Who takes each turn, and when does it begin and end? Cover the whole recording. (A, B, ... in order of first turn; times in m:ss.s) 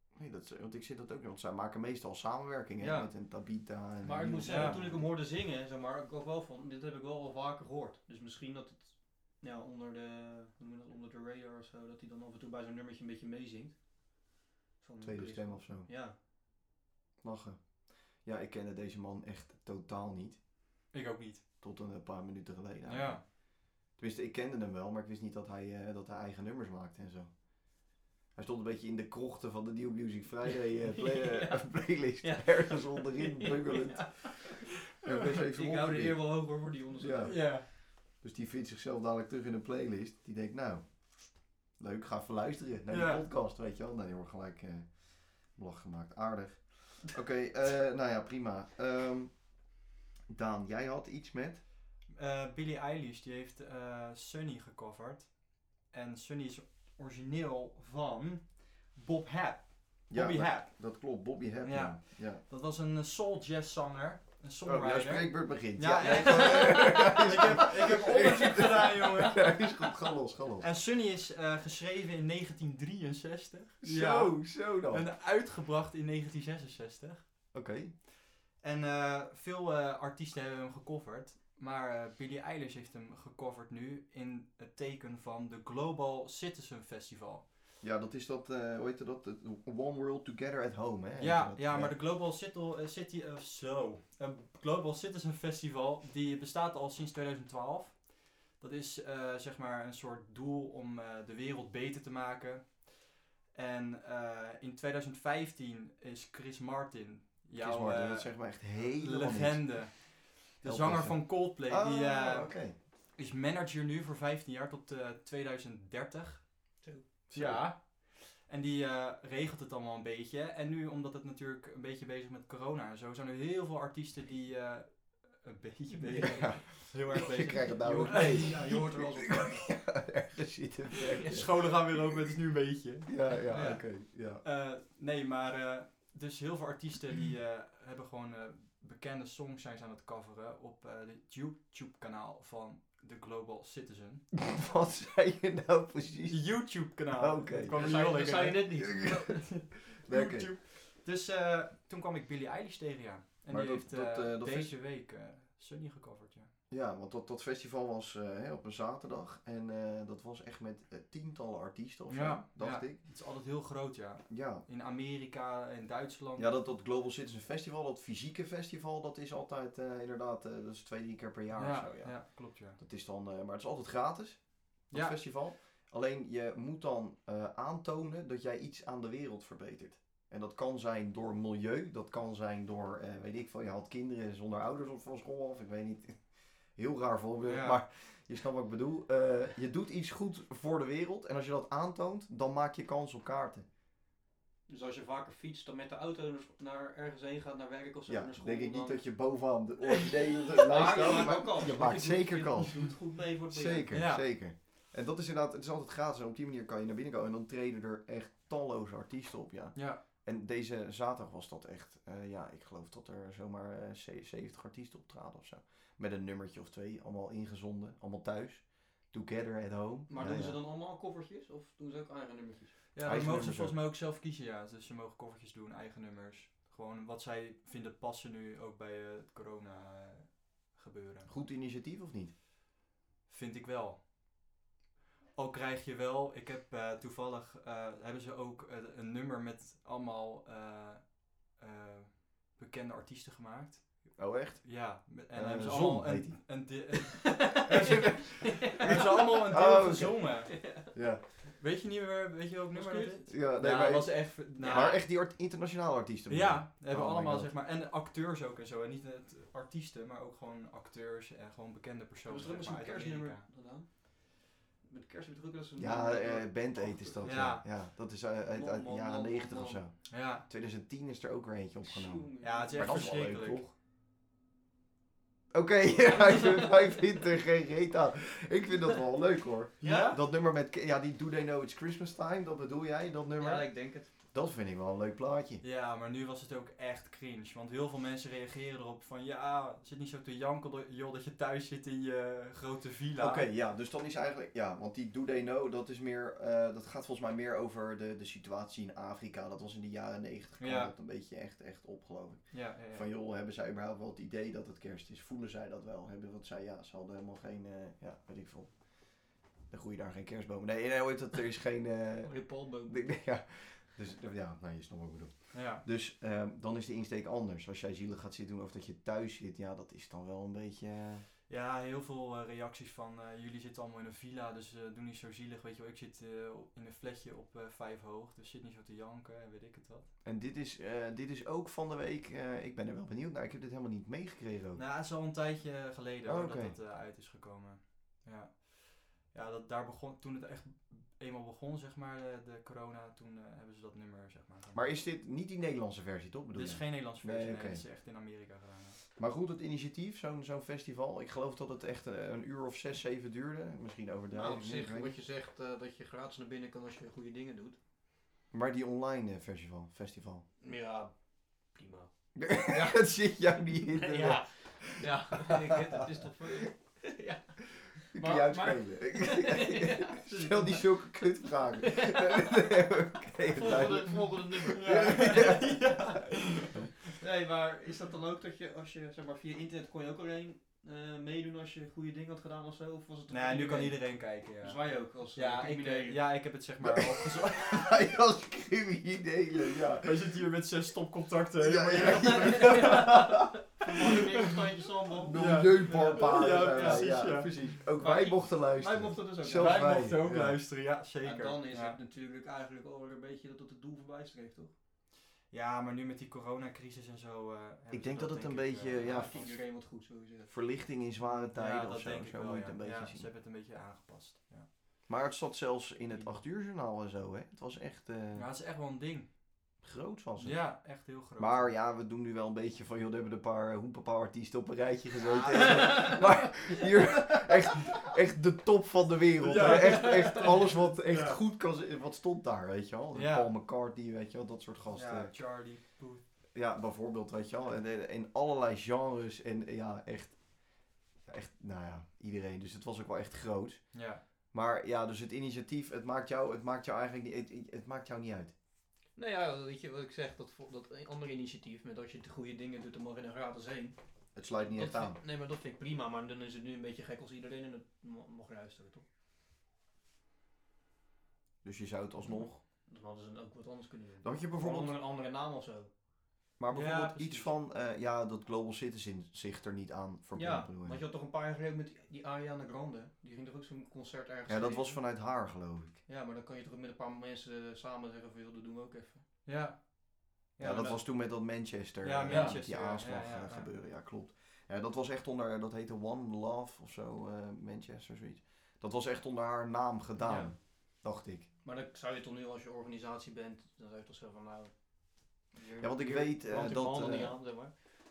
0:00.1-0:05.1 A
0:02.8-0:03.1 B
0:04.0-0:13.8 B
0:04.5-0:04.8 C
0:14.8-0:16.2 B
0:15.0-0:15.9 A
0:17.2-0:20.4 A
0:20.9-0:21.4 C
0:21.6-0:23.3 A
0:22.9-0:23.2 C
0:23.9-0:36.4 A
0:30.5-0:34.6 B
0:35.3-0:37.5 B
0:37.0-0:49.4 A
0:37.2-0:37.7 C
0:42.9-0:43.2 C
0:50.3-0:51.6 A
0:52.1-1:01.1 C
1:00.1-1:02.4 A
1:01.6-1:09.8 C
1:04.6-1:10.7 A
1:10.6-1:17.3 C
1:13.8-1:15.1 A
1:17.5-1:18.0 A
1:18.6-1:27.5 C
1:27.8-1:31.9 A
1:31.2-1:56.5 C
1:47.6-1:50.0 A
1:50.6-1:52.8 A
1:56.8-1:57.1 B
1:57.3-1:57.7 A
1:57.3-2:08.7 C
2:05.9-2:09.8 B
2:06.3-2:11.7 A
2:11.2-2:11.5 B
2:11.2-2:24.2 C
2:13.1-2:14.4 A
2:13.5-2:13.8 B
2:24.4-2:27.9 A
2:26.3-2:36.5 C
2:27.7-2:29.2 B
2:28.8-2:29.5 A
2:30.0-2:30.5 A
2:33.5-2:34.7 A
2:36.7-2:43.0 A
2:42.1-2:46.5 C
2:44.3-2:44.6 A
2:46.4-3:13.7 A
2:51.6-2:52.8 C
2:54.9-2:55.2 C
3:07.4-3:07.8 C
3:14.7-3:19.0 B
3:18.1-3:23.0 A
3:20.6-3:23.9 B
3:23.5-3:40.6 A
3:23.9-3:24.3 C
3:29.8-3:30.0 C
3:40.1-3:42.8 B
3:42.9-3:51.3 C
3:43.0-3:43.8 A
3:51.3-3:52.3 A
3:53.3-3:54.1 C
3:55.4-4:10.9 C
4:04.2-4:06.7 A
4:07.4-4:09.3 B
4:07.6-4:10.3 A
4:10.5-4:10.9 B
4:10.9-4:11.2 A
4:11.6-4:15.0 C
4:12.7-4:13.3 B
4:13.3-4:17.5 A
4:14.6-4:15.0 B
4:16.3-4:23.4 C
4:22.3-4:27.4 B
4:25.8-4:33.7 A
4:27.2-4:27.6 C
4:28.4-4:29.8 B
4:30.1-4:30.4 C
4:31.8-4:33.3 B
4:32.4-4:33.7 C
4:35.5-4:45.6 A
4:39.8-4:40.2 C
4:39.8-4:40.2 B
4:43.4-4:44.1 B
4:45.6-4:53.5 C
4:53.2-5:21.3 A
5:00.6-5:00.9 C
5:02.5-5:03.1 C
5:12.2-5:13.0 B
5:15.5-5:15.8 C
5:21.5-5:30.1 C
5:30.2-5:34.8 A
5:34.8-5:45.0 C
5:36.2-5:36.8 A
5:44.7-5:47.8 A
5:46.6-5:49.0 C
5:49.2-5:55.2 A
5:54.3-5:57.8 B
5:58.5-6:00.4 A
6:00.6-6:01.2 B
6:01.7-6:11.2 B
6:02.4-6:06.6 A
6:08.1-6:16.2 A
6:11.8-6:12.8 B
6:13.5-6:15.6 B
6:14.7-6:16.9 C
6:17.1-6:26.2 B
6:23.3-6:28.1 C
6:26.8-6:30.2 A
6:30.0-6:34.5 C
6:31.6-6:33.5 A
6:32.3-6:37.3 B
6:35.2-6:40.6 A
6:35.3-6:37.8 C
6:38.0-6:40.0 B
6:39.5-6:42.0 C
6:41.2-6:44.7 B
6:45.5-6:49.5 C
6:47.9-6:49.5 A
6:49.0-6:50.5 B
6:50.5-6:53.3 A
6:51.2-6:54.7 C
6:55.1-6:58.5 A
6:56.1-6:56.4 B
6:58.4-6:59.3 C
6:59.8-7:00.8 A
7:00.4-7:01.8 C
7:01.4-7:15.3 A
7:05.2-7:06.3 C
7:05.7-7:06.2 B
7:09.4-7:11.4 C
7:09.7-7:10.5 B
7:13.1-7:13.5 C
7:14.9-7:16.2 C
7:16.5-7:28.5 A
7:23.9-7:24.2 C
7:29.2-7:34.0 B
7:34.4-7:35.2 A
7:34.8-7:39.0 B
7:41.6-7:42.6 A
7:42.9-7:45.9 B
7:44.2-7:45.0 A
7:46.6-7:51.0 A
7:46.7-7:47.5 C
7:50.4-7:55.0 B
7:54.5-7:56.0 A
7:56.1-7:59.2 B
7:59.4-8:01.1 C
8:00.6-8:11.5 A
8:00.6-8:01.0 B
8:02.0-8:03.7 C
8:02.2-8:02.6 B
8:10.2-8:10.5 C
8:11.6-8:17.7 B
8:15.8-8:17.4 A